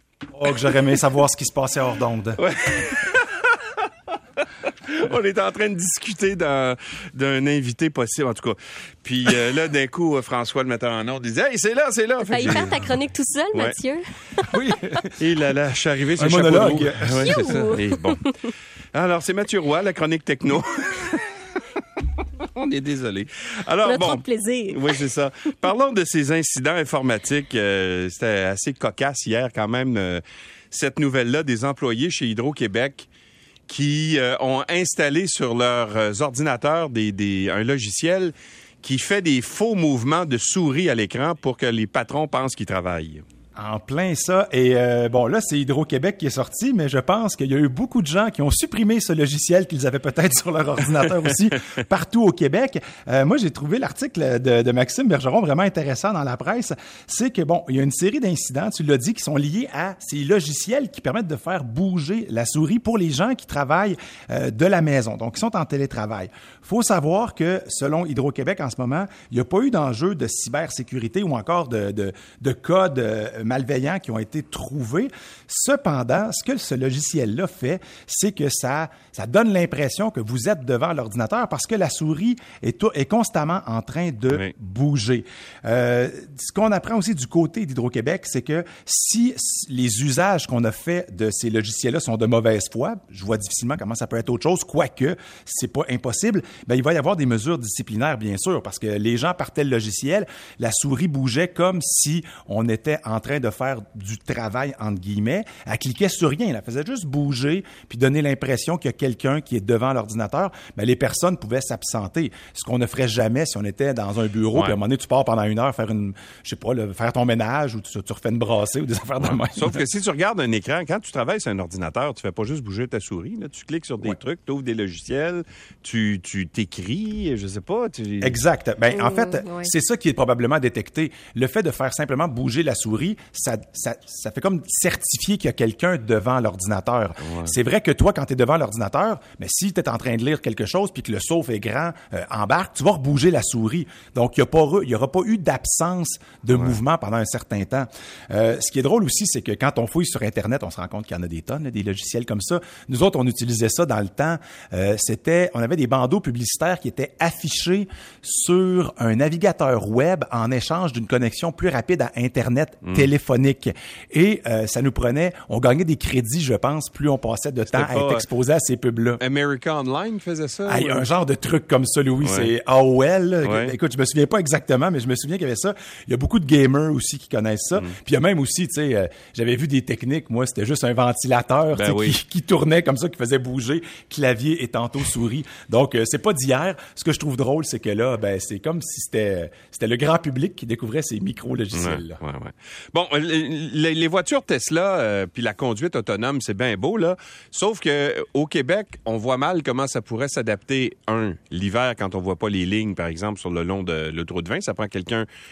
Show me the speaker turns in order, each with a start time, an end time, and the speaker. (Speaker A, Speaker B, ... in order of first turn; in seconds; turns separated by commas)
Speaker A: 0.3-2.4, Speaker B: 2.4-3.7, Speaker B: 4.4-12.8, Speaker C: 12.3-14.0, Speaker A: 14.5-15.2, Speaker B: 15.2-18.3, Speaker A: 16.2-17.4, Speaker C: 17.2-18.3, Speaker B: 18.9-21.3, Speaker B: 22.4-33.1, Speaker C: 23.8-24.8, Speaker B: 33.7-43.2, Speaker A: 43.6-119.9, Speaker B: 119.2-128.4, Speaker A: 128.2-169.2, Speaker C: 128.9-129.7, Speaker B: 137.2-137.5, Speaker B: 167.7-168.2, Speaker B: 169.2-171.1, Speaker A: 170.7-192.2, Speaker B: 172.2-172.5, Speaker B: 173.4-173.7, Speaker B: 181.7-182.2, Speaker B: 191.7-205.3